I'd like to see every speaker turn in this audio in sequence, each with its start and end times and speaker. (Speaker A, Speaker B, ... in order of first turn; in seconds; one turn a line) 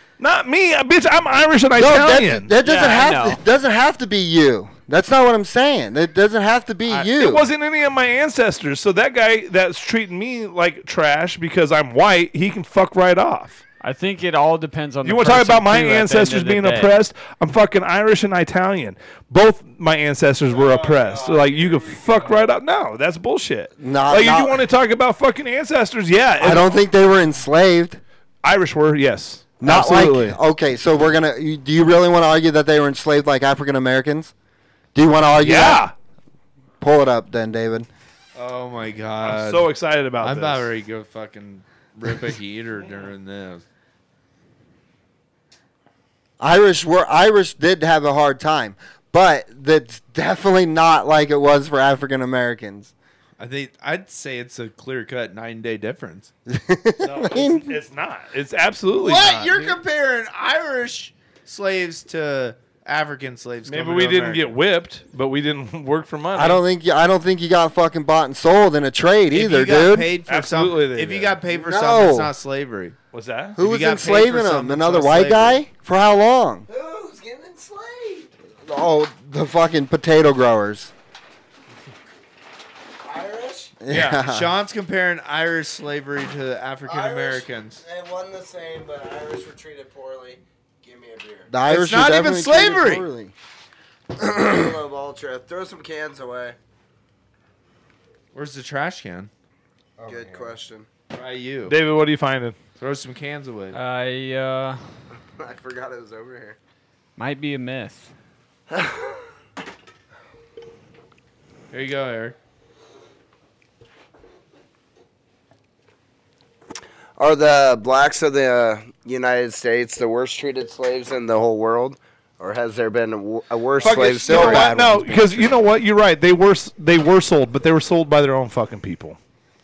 Speaker A: 0.2-2.5
Speaker B: 1.8-7.5
Speaker C: 2.6-3.4
Speaker A: 6.9-13.6
Speaker C: 13.8-16.9
Speaker A: 15.0-26.7
Speaker D: 20.7-21.4
Speaker B: 23.8-24.6
Speaker B: 26.4-28.0
Speaker A: 28.4-30.4
Speaker B: 29.6-34.3
Speaker B: 34.9-35.8
Speaker A: 35.4-35.9
Speaker B: 36.8-37.9
Speaker E: 38.3-43.6
Speaker A: 39.2-40.7
Speaker B: 46.4-52.9
Speaker E: 53.4-56.3
Speaker B: 56.5-57.7
Speaker A: 57.0-59.8
Speaker E: 59.0-64.5
Speaker A: 63.6-66.6
Speaker B: 66.3-70.1
Speaker E: 69.3-73.0
Speaker A: 70.3-71.4
Speaker B: 71.5-72.3
Speaker A: 73.1-73.6
Speaker B: 73.5-76.7
Speaker E: 73.6-75.6
Speaker D: 76.7-78.3
Speaker B: 78.6-80.9
Speaker D: 83.0-83.7
Speaker B: 83.8-84.5
Speaker E: 83.9-87.8
Speaker D: 86.8-91.5
Speaker B: 91.5-93.3
Speaker E: 91.7-93.1
Speaker D: 94.2-96.6
Speaker E: 98.3-99.3
Speaker B: 100.0-100.5
Speaker D: 100.0-100.9
Speaker E: 101.1-101.7
Speaker A: 101.7-102.5
Speaker E: 102.8-103.8
Speaker C: 103.7-104.8
Speaker D: 105.3-106.6
Speaker C: 107.2-108.1
Speaker D: 108.7-109.2
Speaker E: 111.7-112.3
Speaker D: 117.2-124.8
Speaker B: 123.8-125.6
Speaker A: 123.8-129.2